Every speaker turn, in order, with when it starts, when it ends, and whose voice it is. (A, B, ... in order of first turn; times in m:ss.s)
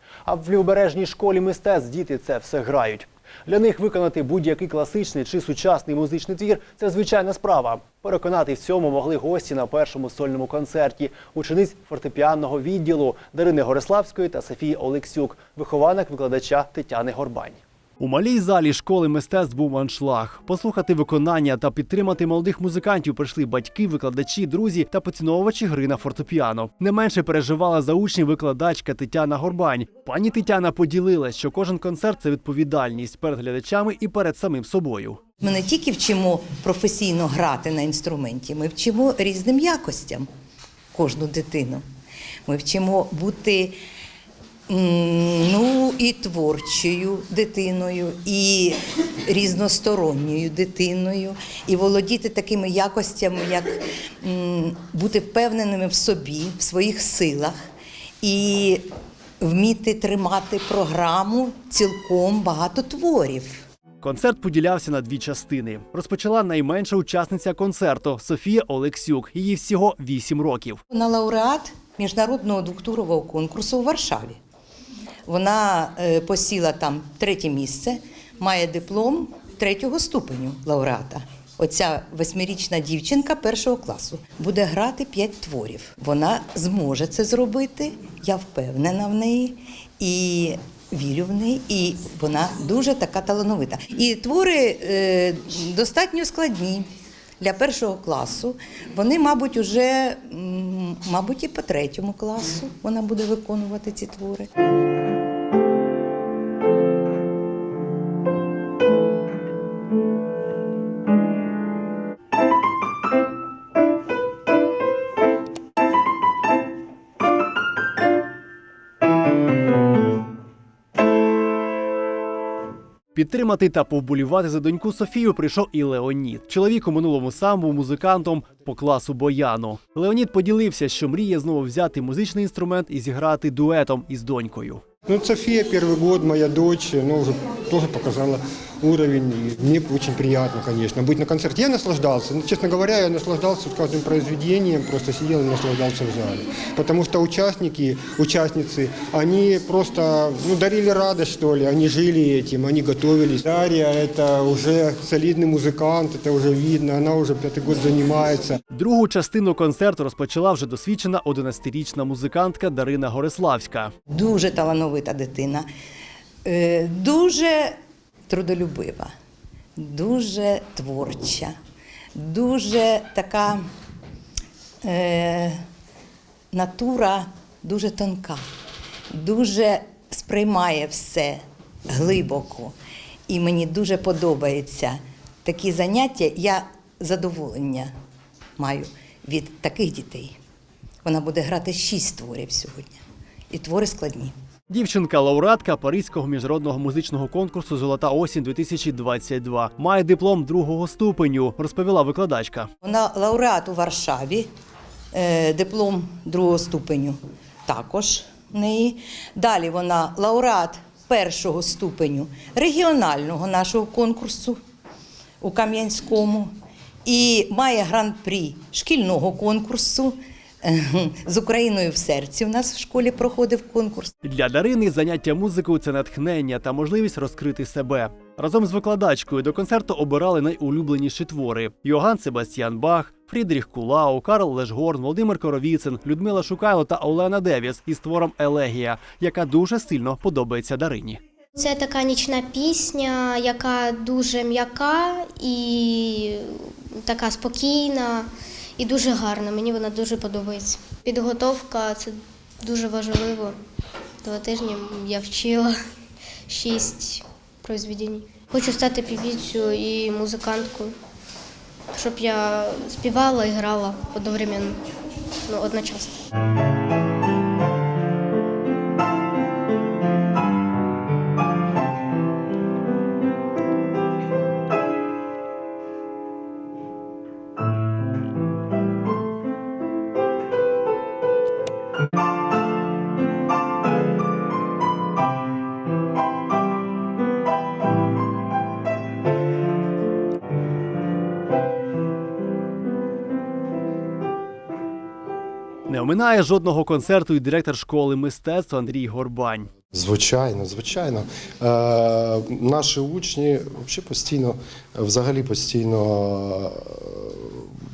0:00.2-0:35.2 A
0:35.4-0:40.3 B
0:40.9-0:41.8 B
0:42.4-0:43.8 B
0:44.7-0:57.5 B
0:58.2-0:58.9 B
0:59.4-1:03.6 B
1:04.0-1:10.8 A
1:10.9-1:14.4 B
1:15.2-1:36.9 B
1:37.4-1:44.5 B
2:03.1-2:14.8 A
2:15.1-2:38.6 C
2:38.7-2:43.9 A
2:44.1-2:45.7 B
2:46.4-2:47.8 B
2:48.3-2:49.1 B
2:49.8-2:51.5 B
2:52.1-2:53.6 B
2:54.8-2:55.6 B
2:56.5-2:58.4 B
2:59.1-3:02.7 B
3:03.3-3:07.9 B
3:08.6-3:10.4 B
3:11.0-3:14.3 B
3:14.7-3:22.7 A
3:22.8-3:24.5 B
3:25.1-3:34.6 B
3:35.4-3:36.5 B
3:37.0-3:44.1 B
3:44.2-4:01.2 A
4:01.6-4:13.6 D
4:14.2-4:15.8 D
4:16.5-4:20.9 D
4:21.9-4:24.8 D
4:25.4-4:26.2 D
4:55.9-4:59.7 A
4:59.9-5:07.7 E